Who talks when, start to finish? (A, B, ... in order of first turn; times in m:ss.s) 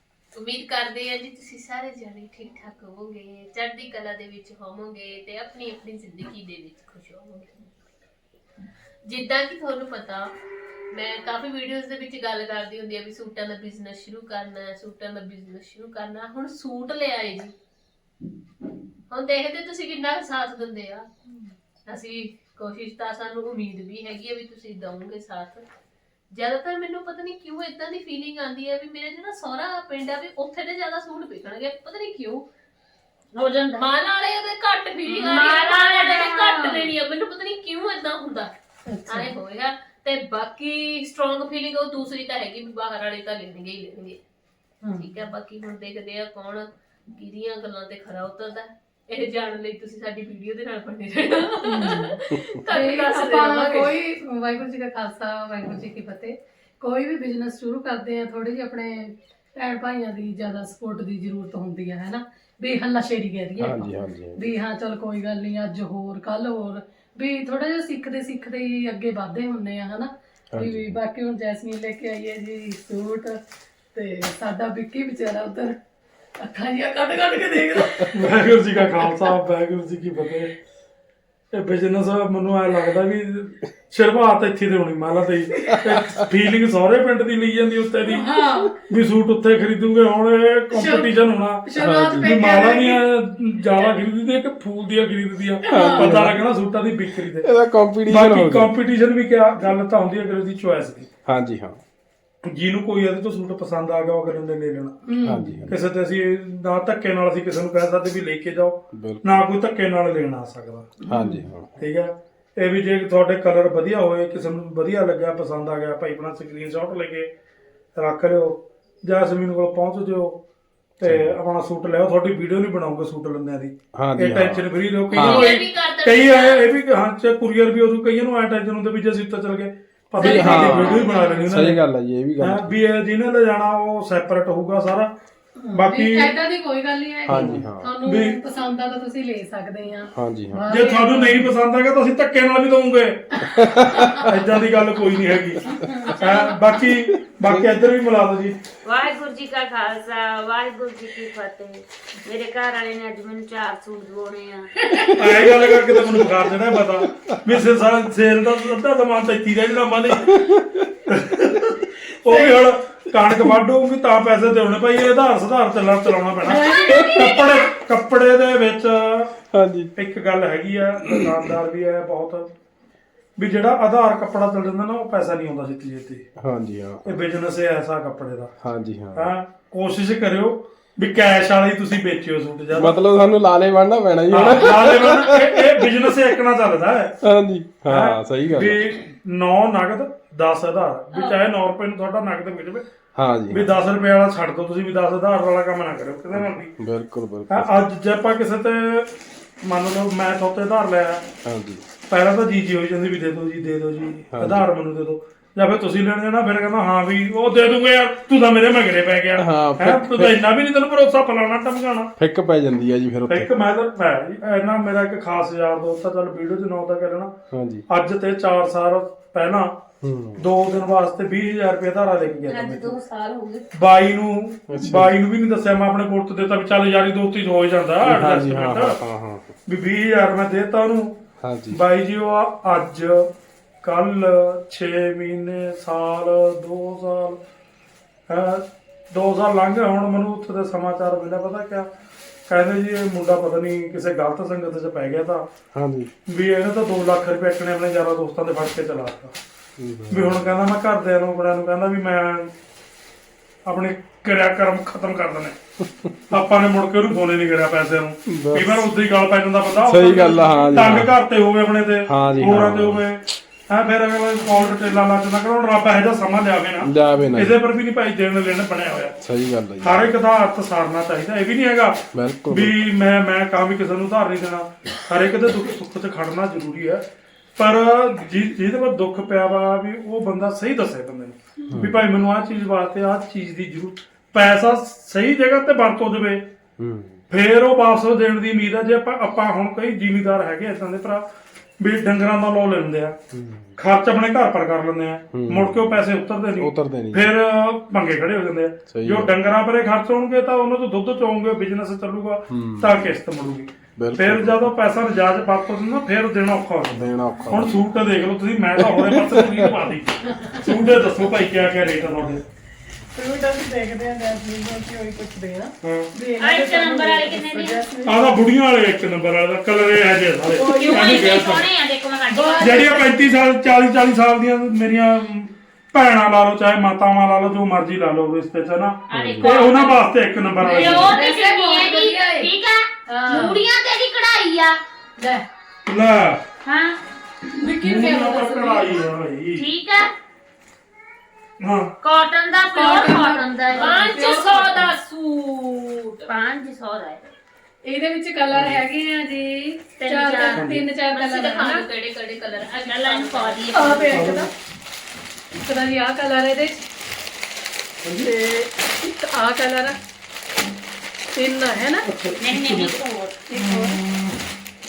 0:00.3-0:07.7 A
0:09.0-0:10.3 A
0:10.9-0:17.5 A
0:19.1-0:21.1 A
0:21.9-0:25.6 A
0:26.3-0:32.4 A
0:33.3-0:33.9 B
0:33.8-0:38.5 A
0:35.1-0:36.9 B
0:38.9-0:39.3 C
0:39.1-0:44.2 A
0:44.8-0:45.1 C
0:45.0-0:53.9 A
0:51.7-0:52.2 C
0:52.7-1:13.4 C
1:03.6-1:04.5 D
1:10.5-1:11.0 D
1:13.9-1:15.8 C
1:16.4-1:18.2 C
1:18.1-1:20.5 E
1:21.5-1:28.3 E
1:25.8-1:26.2 D
1:28.1-1:28.7 C
1:28.9-1:31.6 E
1:30.7-1:31.1 C
1:31.6-1:33.0 C
1:31.8-1:32.3 D
1:32.2-1:37.5 E
1:35.6-1:36.1 C
1:35.7-1:36.5 D
1:37.4-1:38.7 D
1:38.1-1:41.1 E
1:41.3-1:41.8 D
1:42.4-1:45.0 E
1:45.1-1:45.6 C
1:45.2-1:45.8 D
1:45.7-1:51.0 E
1:48.9-1:49.4 D
1:51.1-1:51.7 D
1:51.1-1:51.4 C
1:51.8-1:57.3 E
1:58.0-2:00.4 E
2:01.0-2:11.8 E
2:01.0-2:01.4 D
2:04.0-2:05.5 D
2:05.1-2:06.6 A
2:10.2-2:12.8 D
2:10.2-2:11.5 C
2:12.4-2:15.1 E
2:15.6-2:21.5 C
2:15.7-2:16.3 E
2:17.3-2:17.9 D
2:17.3-2:18.4 E
2:20.1-2:20.7 D
2:20.7-2:23.3 E
2:23.4-2:24.3 C
2:23.5-2:24.3 D
2:23.8-2:28.6 E
2:25.7-2:26.5 C
2:26.8-2:27.9 D
2:28.8-2:35.0 B
2:35.2-2:40.4 E
2:35.8-2:37.4 D
2:40.3-2:40.9 D
2:41.1-2:49.3 E
2:42.3-2:42.6 C
2:46.4-2:47.4 C
2:46.8-2:47.3 D
2:49.5-2:49.9 D
2:50.0-2:52.5 E
2:51.1-2:51.4 D
2:53.4-2:56.2 E
2:56.4-2:57.2 D
2:57.1-2:58.5 E
2:58.6-2:59.3 D
2:59.2-3:03.0 E
3:02.7-3:06.1 D
3:04.3-3:07.2 E
3:07.2-3:08.9 D
3:07.9-3:12.9 E
3:11.1-3:11.4 A
3:13.2-3:13.8 D
3:13.5-3:16.7 E
3:16.3-3:17.9 D
3:17.5-3:19.1 E
3:19.6-3:21.3 E
3:21.4-3:21.8 D
3:22.1-3:32.1 E
3:24.3-3:24.7 D
3:29.4-3:30.4 D
3:32.2-3:33.5 D
3:33.3-3:37.4 E
3:37.5-3:37.8 D
3:37.9-3:39.8 E
3:40.0-3:40.5 D
3:40.4-3:42.9 E
3:42.5-3:43.6 B
3:43.7-3:49.0 E
3:44.7-3:45.2 D
3:48.0-3:49.5 D
3:49.7-3:51.2 E
3:51.4-3:51.8 D
3:51.7-3:53.3 E
3:53.8-3:57.4 E
3:58.3-4:01.9 E
4:02.5-4:05.5 E
4:05.7-4:06.1 D
4:06.3-4:09.4 E
4:09.8-4:10.6 D
4:10.1-4:12.5 E
4:13.7-4:15.6 E
4:16.3-4:29.2 E
4:18.3-4:18.9 D
4:19.9-4:21.1 D
4:22.1-4:23.0 D
4:26.8-4:27.6 D
4:29.2-4:30.2 D
4:29.8-4:46.5 E
4:32.1-4:32.8 D
4:41.7-4:42.0 D
4:46.8-4:47.2 D
4:47.3-4:51.3 E
4:51.8-4:53.2 E
4:53.3-4:53.8 D
4:53.8-5:12.4 E
4:55.3-4:56.0 D
4:56.6-4:57.3 D
4:58.9-4:59.4 D
5:02.5-5:03.0 D
5:04.0-5:04.7 D
5:06.9-5:07.9 D
5:08.8-5:09.8 D
5:13.2-5:18.4 C
5:15.8-5:16.1 E
5:16.4-5:17.8 B
5:18.1-5:21.7 E
5:20.6-5:21.5 C
5:20.6-5:23.0 B
5:22.3-5:23.1 C
5:22.6-5:31.2 E
5:29.1-5:30.0 B
5:29.4-5:29.7 C
5:30.6-5:34.8 B
5:30.6-5:32.5 C
5:33.1-5:33.6 C
5:35.2-5:35.4 C
5:35.9-5:36.4 E
5:36.6-5:37.0 B
5:37.5-5:39.0 C
5:37.8-5:39.7 E
5:39.5-5:40.1 B
5:41.6-5:41.9 E
5:42.0-5:44.1 B
5:42.7-5:44.9 C
5:43.8-5:46.3 A
5:46.3-5:47.2 B
5:47.9-5:51.8 C
5:50.0-5:50.7 B
5:50.6-5:50.8 E
5:51.1-5:54.0 A
5:52.8-5:54.2 B
5:53.7-5:54.5 C
5:54.1-5:54.5 E
5:55.6-5:56.8 C
5:58.0-5:58.3 E
5:58.2-6:00.0 C
6:01.4-6:02.1 C
6:02.1-6:03.0 E
6:02.4-6:03.4 B
6:03.5-6:04.0 C
6:03.6-6:04.4 E